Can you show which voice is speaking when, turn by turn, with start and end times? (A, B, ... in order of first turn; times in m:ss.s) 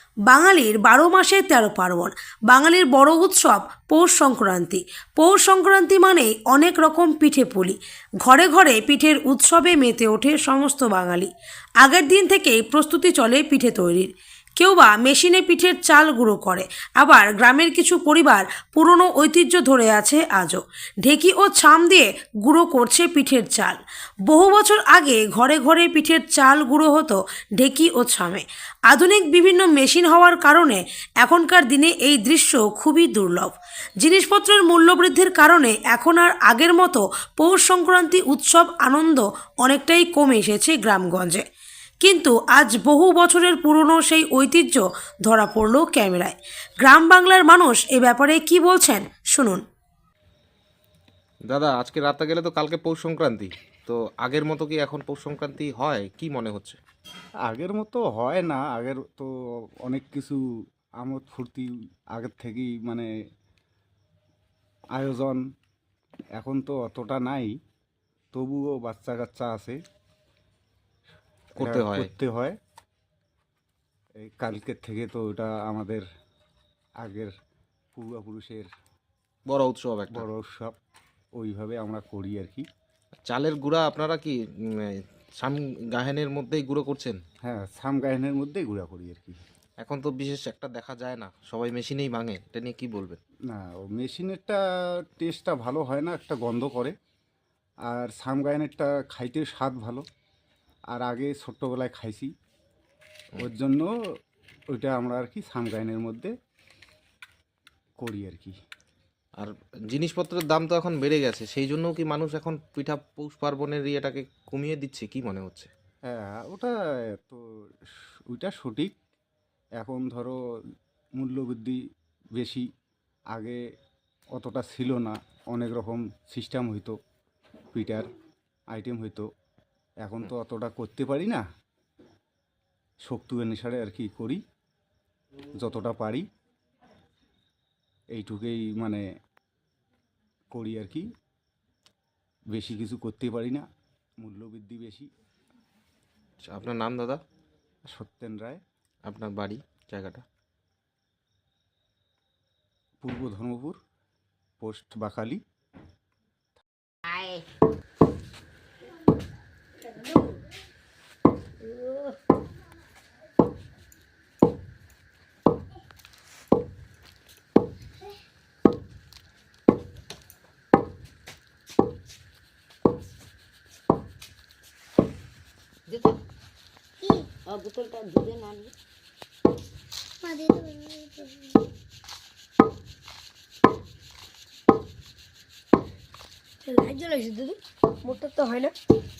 0:00.2-0:41.4 A
0:42.0-0:49.6 A
0:51.5-0:56.8 B
0:57.4-0:59.3 C
0:59.8-1:00.4 C
1:01.0-1:03.1 C
1:04.9-1:05.4 C
1:06.4-1:07.6 C
1:08.3-1:09.8 C
1:11.5-1:12.1 B
1:11.6-1:12.6 C
1:14.2-1:16.0 C
1:17.0-1:17.3 C
1:17.9-1:18.7 C
1:19.5-1:20.3 B
1:20.1-1:20.8 C
1:21.4-1:22.6 C
1:23.2-1:27.2 B
1:27.4-1:29.4 C
1:29.8-1:33.2 B
1:33.5-1:36.9 C
1:37.8-1:40.0 C
1:40.9-1:42.3 C
1:43.4-1:43.9 C
1:44.7-1:46.3 C
1:48.0-1:48.6 C
1:49.4-1:55.7 B
1:56.0-1:58.9 C
1:59.8-2:00.4 C
2:01.2-2:01.8 C
2:02.4-2:02.7 C
2:03.3-2:03.6 C
2:04.3-2:07.0 C
2:07.7-2:08.1 C
2:08.7-2:09.3 C
2:10.0-2:11.4 C
2:13.0-2:14.4 C
2:15.6-2:16.2 C
2:18.1-2:19.0 C
2:20.5-2:21.1 C
2:22.5-2:23.6 C
2:24.2-2:25.1 C
2:26.4-2:27.2 B
2:27.9-2:28.6 C
2:29.1-2:30.2 B
2:33.0-2:33.8 C
2:34.6-2:35.4 C
2:37.1-2:37.4 D
2:39.8-2:40.4 E
2:41.6-2:42.2 E
2:55.9-2:56.2 D
2:57.4-2:58.7 D
3:00.2-3:01.5 E
3:06.6-3:08.7 E